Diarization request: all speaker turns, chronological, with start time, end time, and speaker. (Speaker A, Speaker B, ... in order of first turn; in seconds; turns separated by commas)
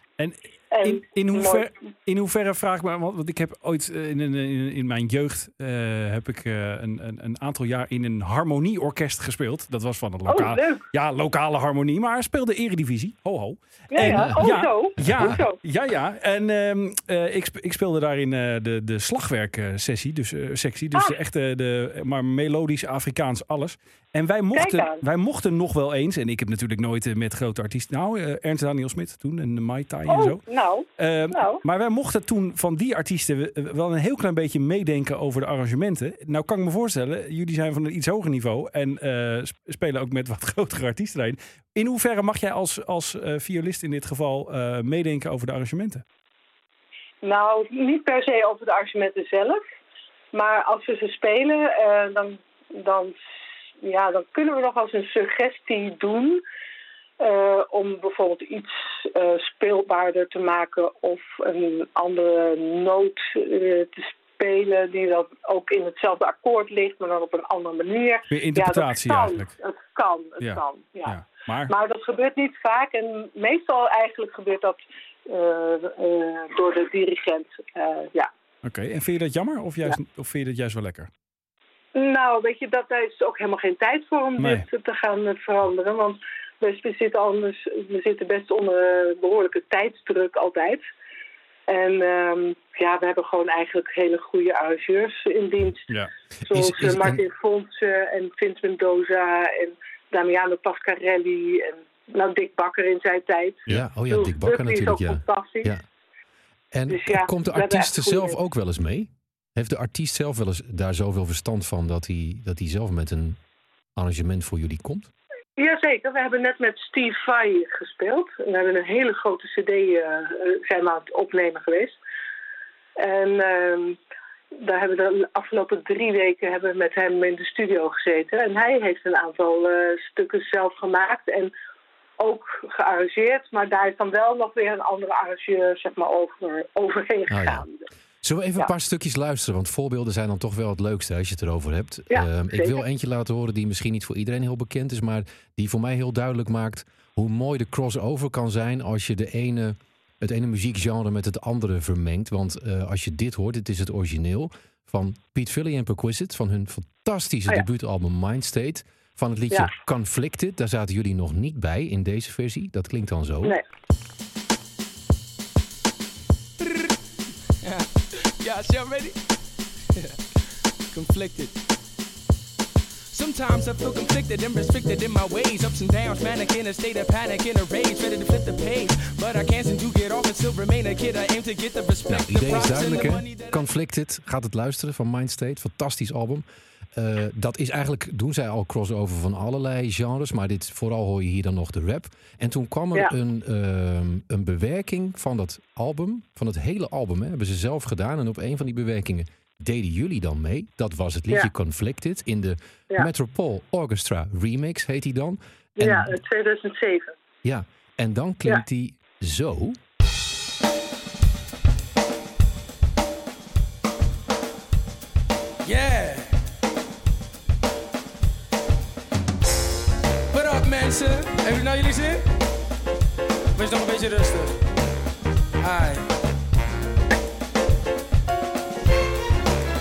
Speaker A: 0.2-30.4, Speaker B: 0.7-1.7, Speaker B: 10.3-10.9, Speaker B: 13.9-15.6, Speaker C: 14.0-15.4, Speaker B: 24.5-25.0, Speaker B: 30.1-31.6, Speaker A: 31.0-46.0, Speaker B: 47.2-49.6, Speaker B: 50.3-53.2, Speaker B: 53.8-56.4, Speaker B: 57.2-71.2, Speaker A: 68.3-69.5, Speaker A: 70.4-71.7, Speaker B: 71.7-78.3, Speaker A: 78.6-81.1, Speaker B: 82.0-90.8, Speaker A: 84.4-84.7, Speaker B: 91.7-95.9, Speaker C: 96.5-97.2, Speaker B: 96.5-105.7, Speaker C: 103.7-105.8, Speaker C: 106.7-113.4, Speaker B: 106.9-108.4, Speaker C: 114.0-115.1, Speaker B: 115.6-122.0, Speaker B: 123.0-124.0, Speaker B: 124.5-131.5, Speaker B: 132.2-137.8, Speaker C: 137.3-137.7, Speaker C: 138.2-163.6, Speaker B: 142.1-142.8, Speaker D: 167.6-167.9, Speaker D: 168.4-169.2, Speaker D: 170.9-171.6, Speaker D: 173.1-183.7, Speaker C: 182.1-206.2, Speaker B: 205.8-207.2, Speaker C: 207.4-209.8, Speaker D: 220.3-222.2, Speaker D: 223.6-224.6, Speaker D: 225.6-226.0